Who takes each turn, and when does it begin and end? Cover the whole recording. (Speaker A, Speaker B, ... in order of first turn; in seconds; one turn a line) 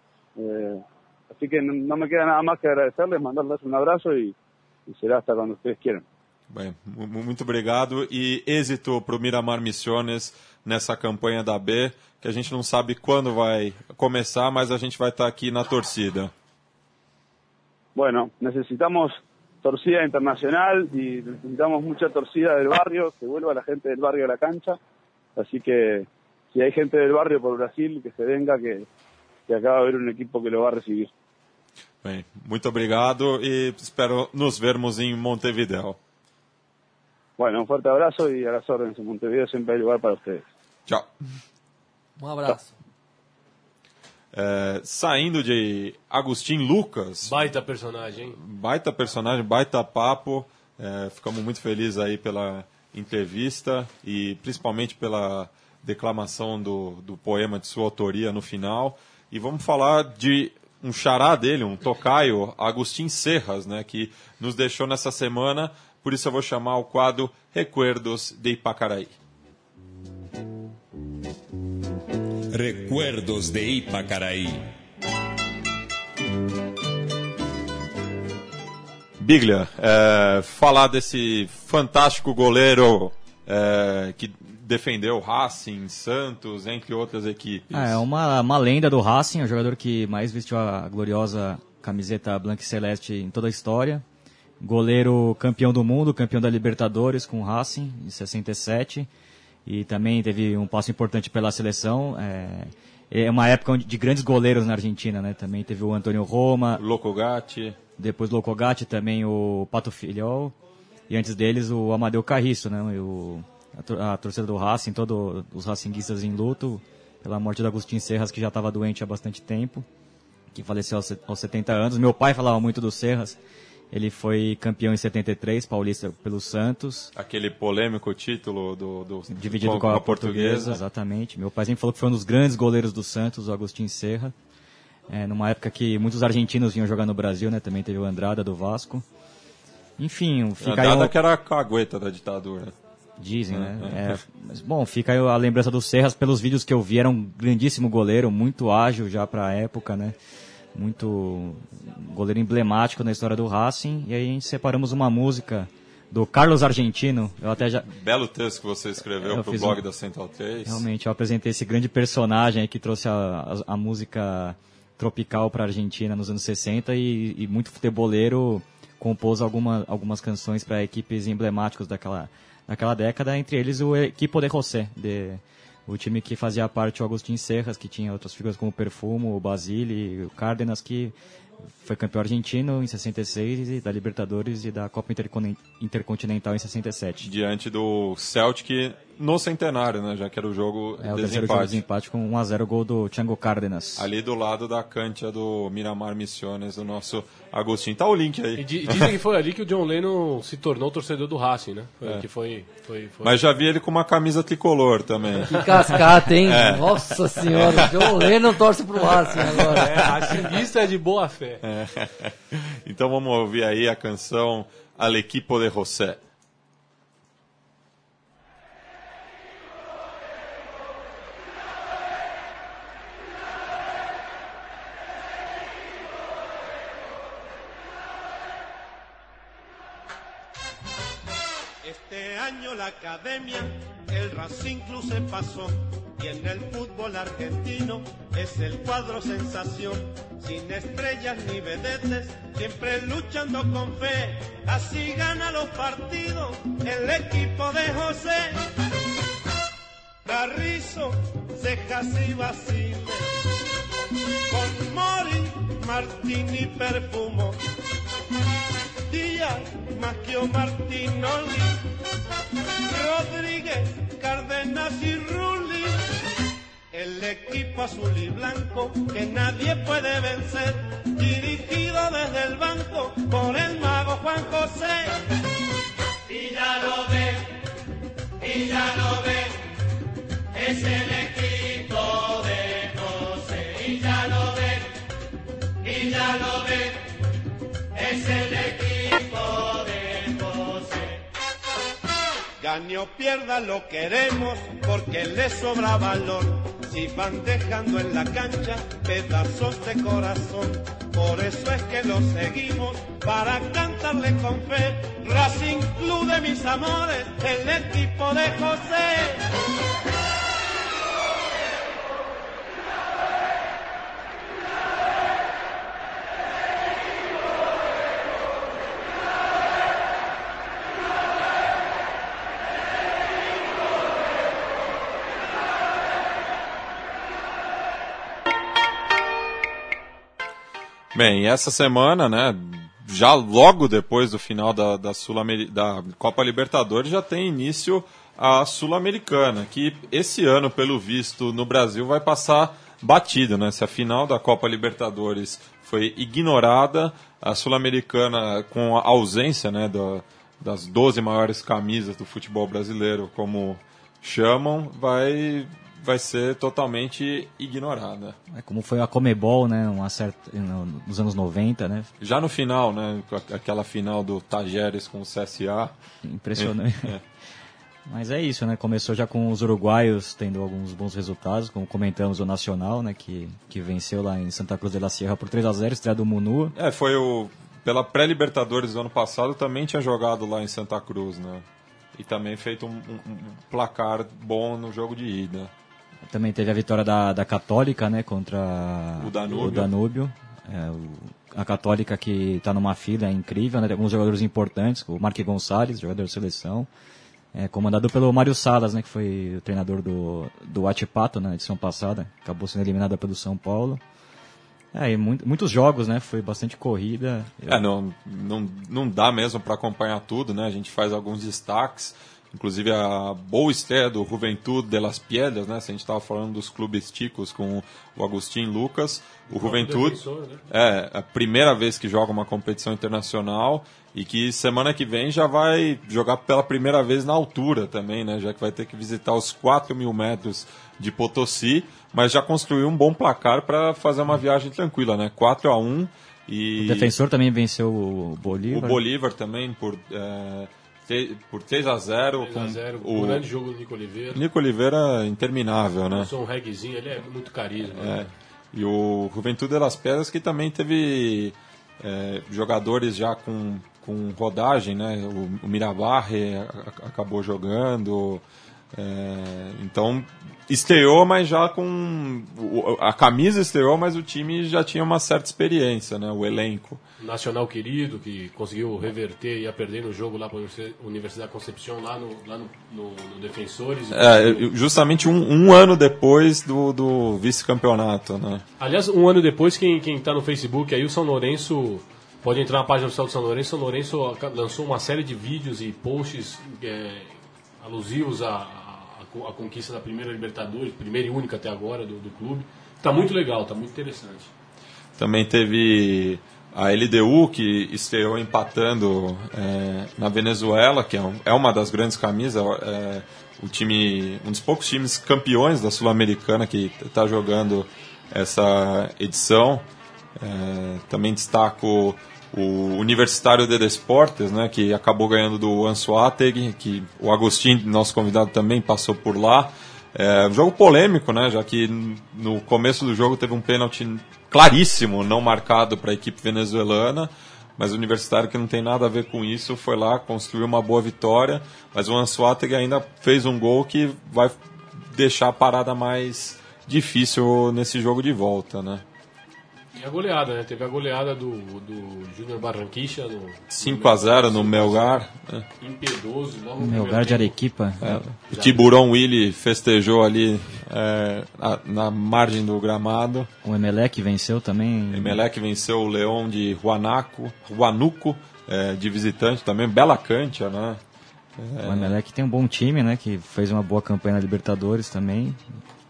Speaker A: 0.4-4.3
Speaker A: 4.9-6.0
Speaker B: 6.5-16.3
Speaker A: 17.9-24.8
Speaker A: 25.4-28.9
Speaker A: 29.5-31.1
Speaker B: 32.0-36.0
Speaker A: 37.4-40.4
Speaker C: 42.2-42.7
Speaker B: 44.3-47.4
Speaker D: 47.2-48.4
Speaker B: 48.4-69.1
Speaker E: 72.5-74.7
Speaker B: 79.2-88.0
Speaker F: 87.7-94.0
Speaker F: 94.6-99.1
Speaker F: 99.7-106.8
Speaker B: 106.8-107.8
Speaker F: 108.0-110.5
Speaker F: 111.1-119.9
Speaker F: 120.5-123.4
Speaker F: 123.9-127.1
Speaker B: 127.1-130.8
Speaker F: 129.3-134.3
Speaker F: 135.1-139.1
Speaker F: 140.0-141.1
Speaker B: 140.6-142.7
Speaker F: 143.2-150.2
Speaker B: 143.5-144.2
Speaker F: 150.7-157.9
Speaker B: 157.9-160.8
Speaker F: 159.2-159.8
Speaker F: 160.7-181.2
Speaker F: 181.8-187.3
Speaker B: 187.2-191.8
Speaker F: 191.0-194.1
Speaker B: 194.0-199.1
Speaker D: 198.6-203.3
Speaker B: 203.2-208.3
Speaker C: 205.5-210.0
Speaker B: 209.4-210.5
Speaker D: 209.7-211.6
Speaker B: 211.6-216.2
Speaker G: 231.8-248.6
Speaker G: 250.2-253.3
Speaker G: 254.5-257.6
Speaker G: 259.1-261.8
Speaker G: 262.9-266.0
Speaker G: 266.9-275.1
Speaker G: 292.6-309.4
Speaker B: 331.1-358.4
Speaker F: 358.5-362.1
Speaker B: 362.2-365.9
Speaker F: 366.2-367.2
Speaker B: 366.6-367.2
Speaker F: 368.1-376.7
Speaker B: 376.7-381.6
Speaker B: 382.1-385.7
Speaker F: 386.3-396.9
Speaker B: 389.2-389.9
Speaker F: 397.5-404.0
Speaker F: 404.9-407.8
Speaker B: 407.7-437.1
Speaker D: 419.5-420.6
Speaker F: 436.8-439.0
Speaker B: 438.7-443.4
Speaker D: 442.4-444.4
Speaker B: 444.3-446.3
Speaker D: 446.1-448.3
Speaker B: 447.9-467.0
Speaker D: 467.2-474.7
Speaker B: 474.1-478.6
Speaker D: 478.8-494.5
Speaker B: 495.2-509.8
Speaker B: 510.4-539.0
Speaker D: 539.9-545.3
Speaker B: 543.7-545.6
Speaker D: 545.8-547.5
Speaker F: 546.8-548.2
Speaker B: 548.0-553.5
Speaker D: 548.5-548.9
Speaker F: 553.6-555.4
Speaker B: 555.1-561.0
Speaker B: 561.6-562.1
Speaker F: 561.8-565.6